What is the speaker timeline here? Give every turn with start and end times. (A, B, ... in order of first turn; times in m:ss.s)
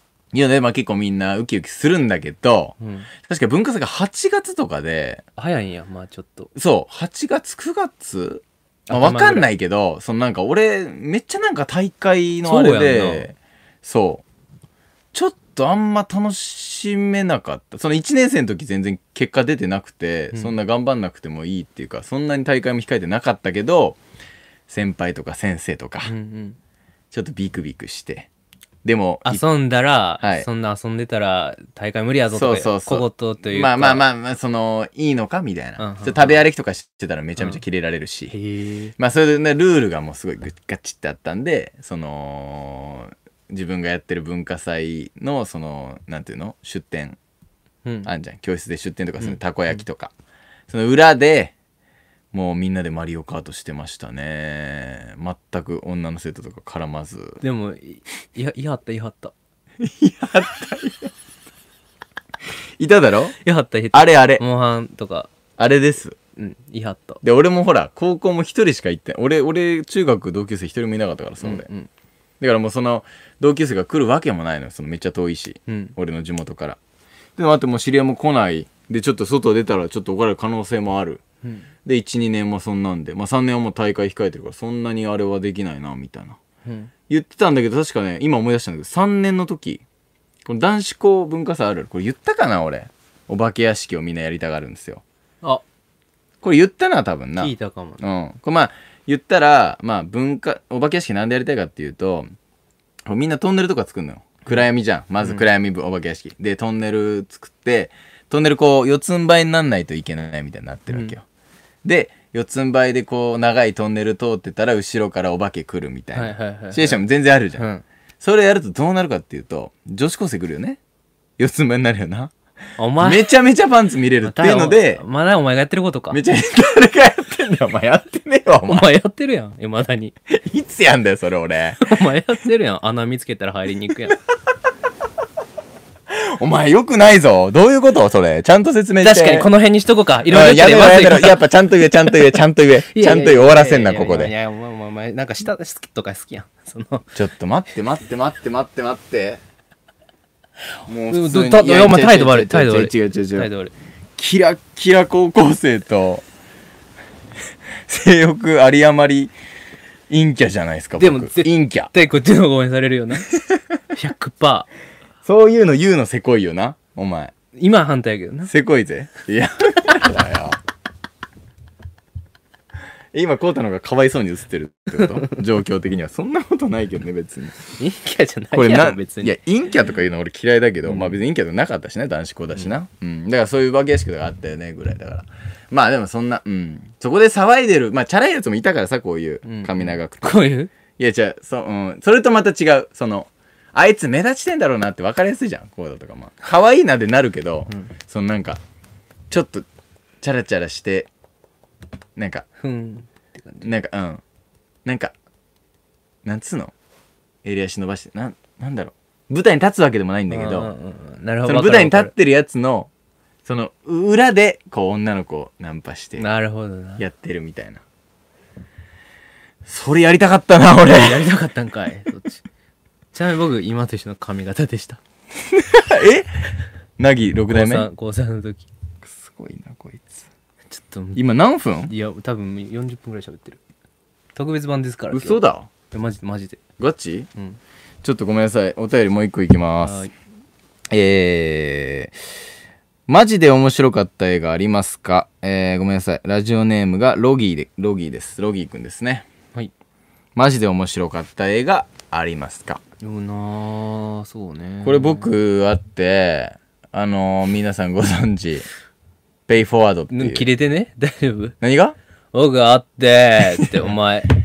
0:00.3-0:05.2 A
0:02.8-0:03.1 B
0:05.4-0:06.5 B
0:06.6-0:14.2 A
0:08.9-0:09.5 B
0:12.4-0:13.3 B
0:15.1-0:24.0 A
0:24.7-0:26.1 A
0:26.1-0:26.6 B
0:27.1-0:28.3 A
0:28.8-0:29.4 A
0:29.2-0:34.1 B
0:30.2-0:30.5 A
0:32.3-0:38.3 A
0:35.8-0:36.4 B
0:38.3-0:38.9 B
0:39.0-0:47.2 A
0:47.8-0:48.1 B
0:48.0-0:50.1 A
0:50.7-0:51.5 A
0:52.3-0:57.4 A
0:57.4-0:59.3 B
0:59.8-1:01.1 A
1:02.8-1:03.4 A
1:03.4-1:05.3 B
1:03.9-1:04.4 A
1:05.6-1:06.2 A
1:06.4-1:07.2 B
1:07.2-1:11.7 A
1:11.4-1:11.9 B
1:12.4-1:16.8 A
1:15.7-1:16.0 B
1:17.4-1:21.2 A
1:21.4-1:21.7 B
1:21.8-1:26.4 A
1:26.6-1:26.9 B
1:27.1-1:29.8 A
1:30.5-1:35.0 A
1:36.4-1:42.3 A
1:37.4-1:38.0 B
1:43.1-1:51.2 A
1:51.8-1:57.7 A
1:56.1-1:57.0 B
1:57.6-1:57.8 B
1:58.2-2:00.8 A
2:01.4-2:02.3 A
2:02.8-2:03.3 B
2:03.0-2:05.0 A
2:04.2-2:06.2 B
2:06.1-2:08.9 A
2:08.6-2:10.2 B
2:10.3-2:11.9 A
2:11.8-2:14.2 B
2:16.1-2:19.5 A
2:19.0-2:21.5 B
2:20.3-2:24.3 A
2:22.9-2:27.1 B
2:27.2-2:29.4 A
2:30.9-2:33.5 A
2:31.1-2:33.7 B
2:34.2-2:36.2 A
2:37.8-2:39.3 A
2:40.1-2:41.9 A
2:41.0-2:43.3 B
2:43.9-2:44.7 B
2:45.2-2:47.3 A
2:47.5-2:48.5 B
2:48.5-2:50.6 A
2:53.1-2:57.6 A
2:57.8-2:59.4 B
2:58.5-3:10.4 A
3:00.8-3:01.2 B
3:09.4-3:10.7 B
3:11.0-3:18.6 A
3:19.3-3:19.7 A
3:20.2-3:21.1 A
3:22.2-3:22.5 A
3:22.6-3:23.7 B
3:23.6-3:24.2 A
3:24.8-3:25.1 A
3:26.2-3:26.7 A
3:27.4-3:30.7 A
3:30.3-3:32.1 B
3:31.4-3:32.9 A
3:33.4-3:36.2 A
3:36.2-3:37.0 B
3:37.0-3:37.8 A
3:39.7-3:41.3 A
3:40.9-3:42.4 B
3:43.1-3:45.0 B
3:45.5-3:46.3 A
3:47.0-3:47.9 A
3:47.5-3:48.7 B
3:49.0-3:50.3 A
3:50.7-3:51.2 B
3:51.2-3:51.9 A
3:51.9-3:53.6 B
3:54.4-3:56.6 B
3:55.1-3:55.7 A
3:56.8-3:57.3 A
3:58.0-4:00.1 A
3:59.8-4:00.1 B
4:00.9-4:02.2 A
4:03.1-4:09.3 A
4:10.4-4:12.8 A
4:13.0-4:15.3 B
4:14.8-4:18.7 A
4:19.5-4:20.5 A
4:20.1-4:21.6 B
4:21.6-4:22.0 A
4:22.3-4:24.3 B